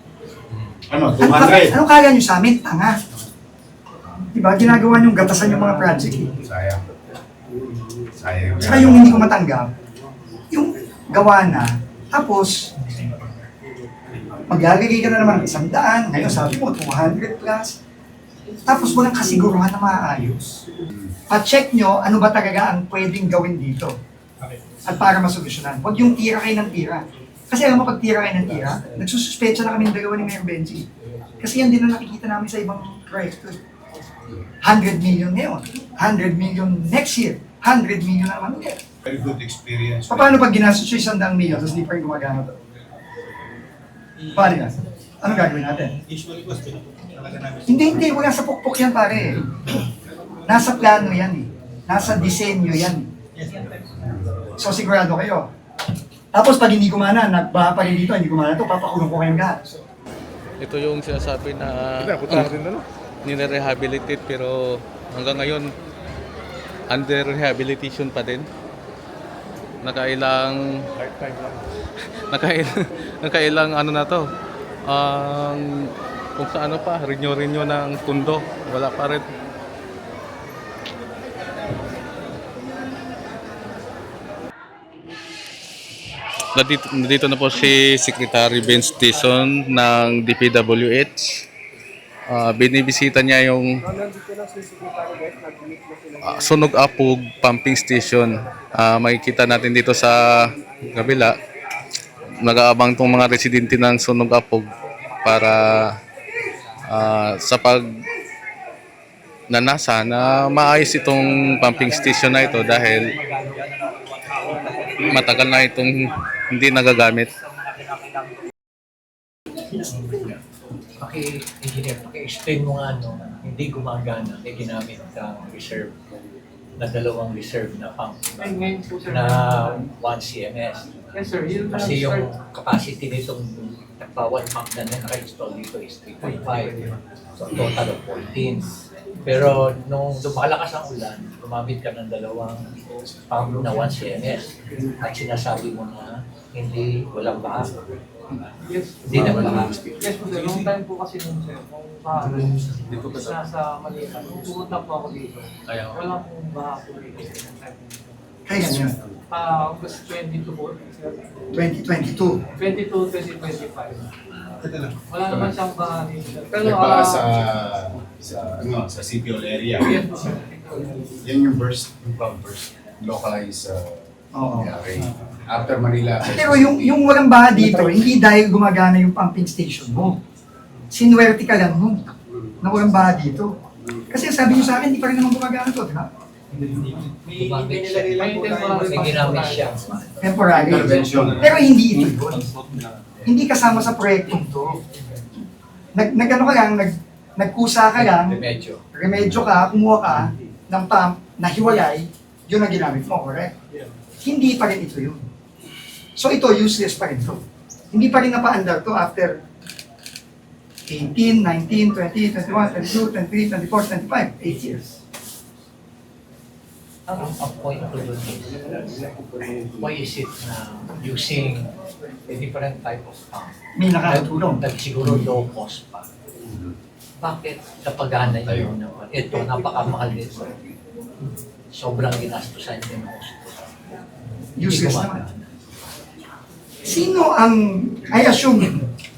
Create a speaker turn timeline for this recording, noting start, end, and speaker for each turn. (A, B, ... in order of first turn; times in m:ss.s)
0:00.9-0:01.8 A
0:01.2-0:03.0 B
0:04.3-0:06.3 B
0:06.4-0:06.8 A
0:08.2-0:09.2 A
0:08.6-0:09.7 B
0:10.5-0:12.7 B
0:12.8-0:13.5 C
0:14.5-0:17.8 B
0:18.6-0:20.6 B
0:21.3-0:24.0 B
0:24.4-0:24.8 C
0:24.8-0:30.9 B
0:31.4-0:33.6 B
0:34.6-0:38.8 B
0:39.0-0:40.5 A
0:40.1-0:42.6 B
0:44.2-0:44.7 C
0:44.3-0:45.9 B
0:45.2-0:48.3 C
0:47.7-0:49.6 B
0:50.5-0:53.1 B
0:53.3-0:54.6 C
0:54.2-0:54.5 A
0:54.6-0:55.5 B
0:56.3-0:59.6 B
1:00.6-1:05.7 D
1:06.9-1:08.4 D
1:09.8-1:11.6 D
1:12.3-1:14.3 D
1:14.8-1:19.2 D
1:26.6-1:31.4 D
1:32.3-1:33.8 D
1:36.2-1:41.4 D
1:42.4-1:44.7 D
1:45.2-1:46.0 D
1:46.9-1:47.9 D
1:49.5-1:53.1 D
1:51.7-1:53.5 E
1:55.0-1:57.3 D
2:01.0-2:05.9 F
2:06.8-2:11.0 F
2:08.4-2:09.9 E
2:11.1-2:12.3 E
2:11.7-2:18.7 F
2:16.2-2:17.0 C
2:19.2-2:22.7 F
2:23.3-2:27.8 F
2:28.6-2:38.2 E
2:29.0-2:29.7 F
2:29.3-2:29.9 A
2:30.2-2:30.7 C
2:35.7-2:36.2 D
2:38.4-2:39.0 B
2:39.3-2:41.2 E
2:41.5-2:42.4 B
2:42.5-2:44.1 E
2:44.6-2:45.0 C
2:45.1-2:47.4 E
2:45.2-2:45.5 A
2:46.6-2:50.0 A
2:49.9-2:50.9 E
2:51.2-2:57.1 A
2:54.3-2:54.8 B
2:56.2-3:00.2 B
3:00.9-3:03.6 B
3:04.1-3:06.1 B
3:06.5-3:09.7 C
3:07.3-3:10.2 F
3:08.1-3:09.8 E
3:10.2-3:12.4 B
3:10.5-3:12.1 A
3:11.1-3:11.6 C
3:13.2-3:14.8 B
3:15.9-3:18.4 B
3:18.0-3:18.8 F
3:18.9-3:23.5 B
3:19.1-3:19.4 A
3:24.2-3:25.2 B
3:26.2-3:29.4 B
3:30.9-3:35.0 B
3:37.1-3:38.7 F
3:39.8-3:41.7 F
3:42.3-3:43.5 F
3:43.8-3:44.6 B
3:44.0-3:46.1 F
3:45.0-3:45.3 A
3:46.4-3:46.7 A
3:47.2-3:50.6 F
3:48.4-3:48.7 A
3:51.7-3:53.7 F
3:54.6-3:55.2 B
3:54.6-3:55.5 F
3:56.8-3:58.8 B